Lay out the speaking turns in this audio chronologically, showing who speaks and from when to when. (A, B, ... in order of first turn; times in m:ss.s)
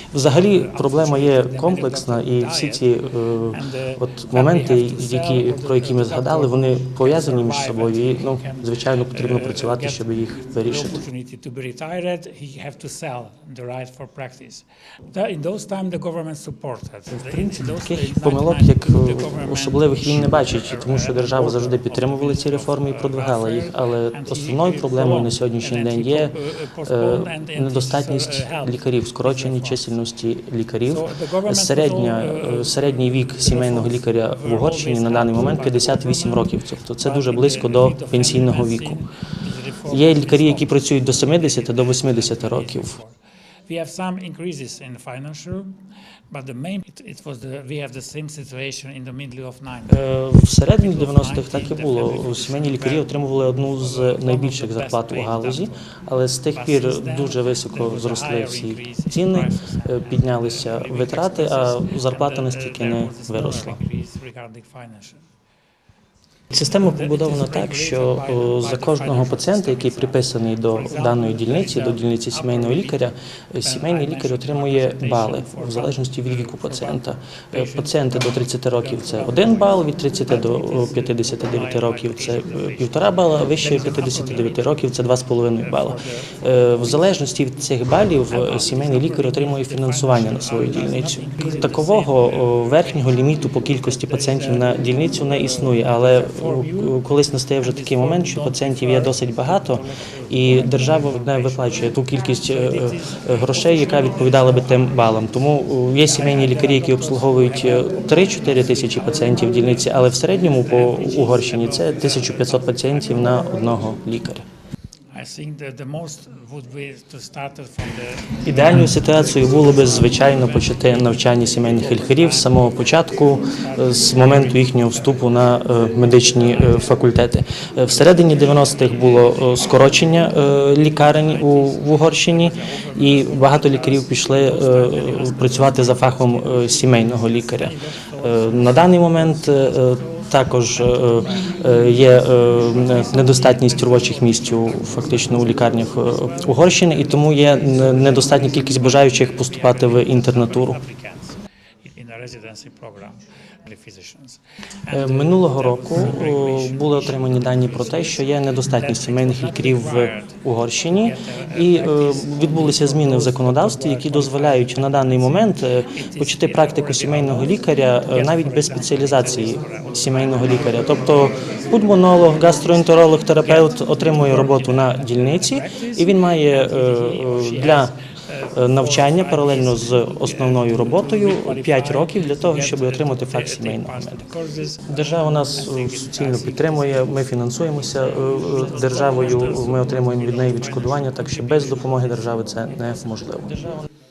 0:00.1-0:11.0 A
0:00.3-0:02.8 B
0:03.5-0:30.0 B
0:17.1-0:39.0 A
0:30.9-0:45.8 B
0:39.9-0:42.9 A
0:46.3-0:50.0 B
0:49.9-1:03.8 A
0:50.8-0:55.8 B
0:56.5-1:05.2 B
1:06.5-1:54.4 A
1:06.8-1:13.1 B
1:13.6-1:17.0 B
1:17.5-1:24.7 B
1:25.6-1:27.0 B
1:28.3-1:33.1 B
1:33.7-1:34.7 B
1:35.3-1:37.0 B
1:37.6-1:41.9 B
1:42.5-1:45.3 B
1:46.0-1:49.7 B
1:50.6-1:53.0 B
1:55.1-2:05.3 B
1:58.4-2:30.8 A
2:06.5-2:06.9 B
2:07.9-2:31.3 B
2:31.9-2:40.4 B
2:34.9-2:58.0 A
2:41.0-2:52.8 B
2:53.4-3:12.0 B
2:58.6-3:04.2 A
3:04.9-3:13.8 A